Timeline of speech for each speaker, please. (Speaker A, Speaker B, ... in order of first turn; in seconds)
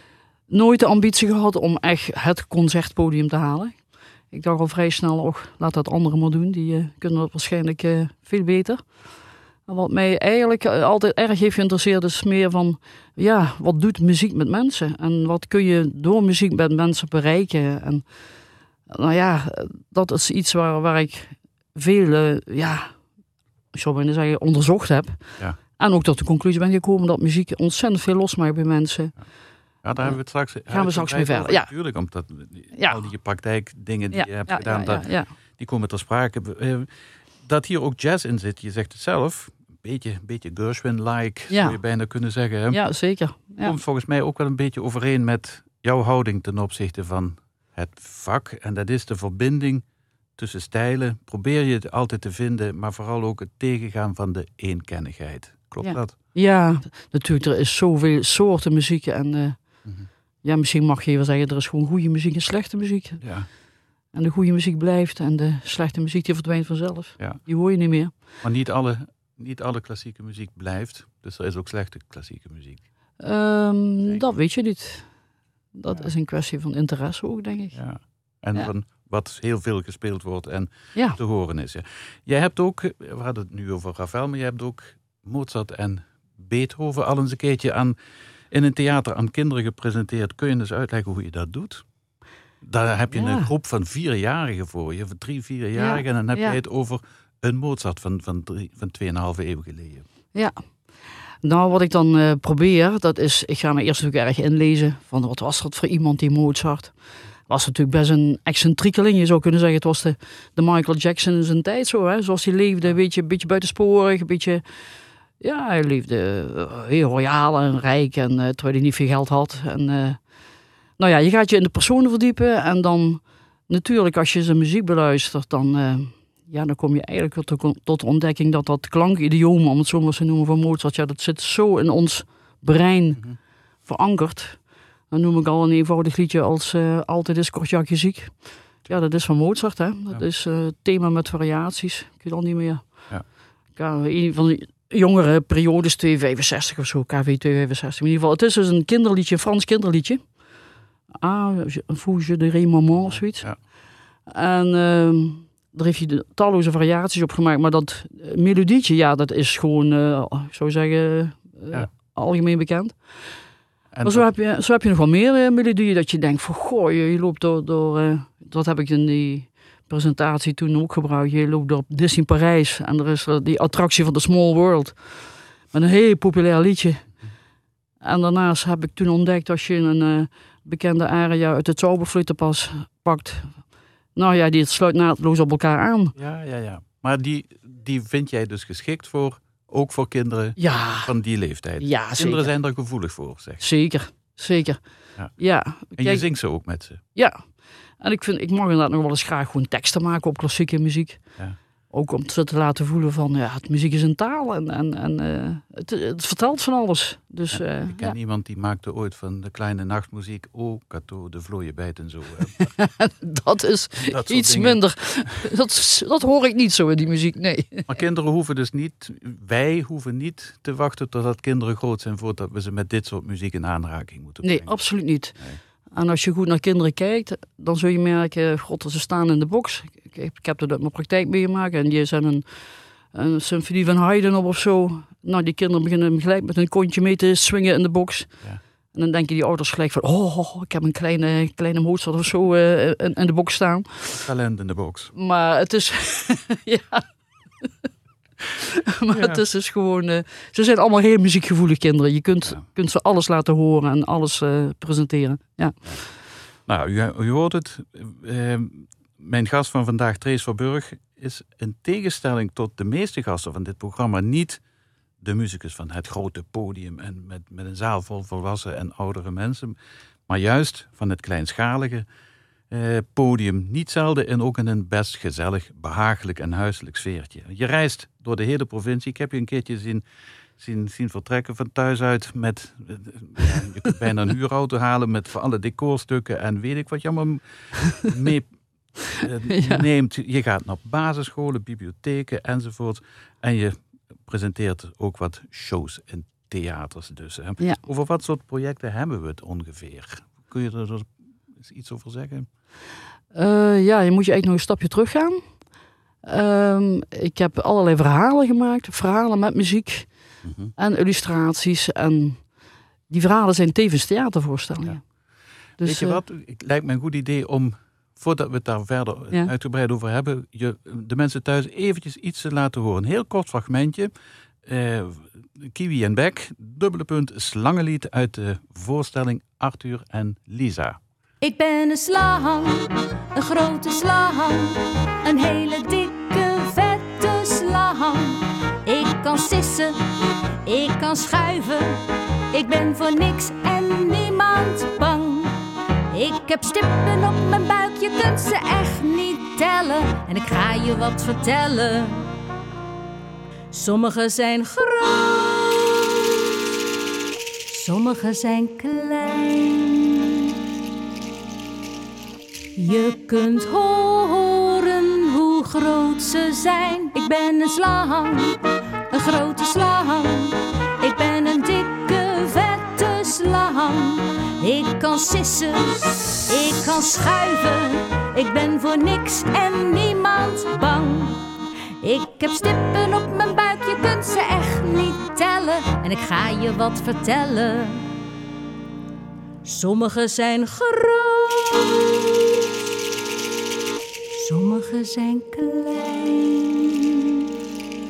Speaker A: 0.5-9.0, 9.7-18.1, 18.9-23.0, 23.7-29.1, 30.7-31.7, 34.1-35.3, 41.5-41.8, 42.7-43.8, 55.8-59.9, 60.4-63.2, 64.1-68.1, 73.2-75.1, 75.7-77.8, 93.1-93.5, 95.8-96.6, 100.3-100.6, 101.4-114.6, 115.4-120.2, 121.0-133.2, 133.8-143.2, 143.7-150.3, 151.1-153.5, 154.3-163.2, 164.0-177.1, 178.0-186.2, 190.6-191.1, 191.8-192.5, 193.6-196.2, 197.1-201.3, 201.9-208.2, 212.6-217.9, 224.4-225.3, 225.9-238.4, 238.9-244.3, 245.1-247.1, 248.5-255.9, 289.5-289.8, 303.3-305.4, 306.2-310.1, 310.8-312.5, 313.1-315.0, 315.8-316.2
Speaker B: 29.8-36.9, 37.4-42.8, 43.6-49.8, 50.4-56.1, 63.2-63.5, 68.4-72.9, 77.7-88.0, 88.5-91.9, 92.6-100.1, 153.0-153.6, 163.9-164.3, 186.2-193.6, 195.9-197.0, 207.5-212.7, 214.0-214.8, 217.9-224.8, 244.2-245.1, 249.1-249.4, 256.6-264.6, 265.2-269.8, 270.3-272.1, 272.7-280.0, 280.6-302.5, 310.4-310.7, 315.8-324.1, 324.6-331.0
Speaker C: 331.4-340.1, 340.6-345.6, 346.1-352.3, 353.7-356.6, 357.7-360.6, 362.8-368.6, 369.1-381.4, 382.0-388.1, 389.6-392.7, 394.3-397.5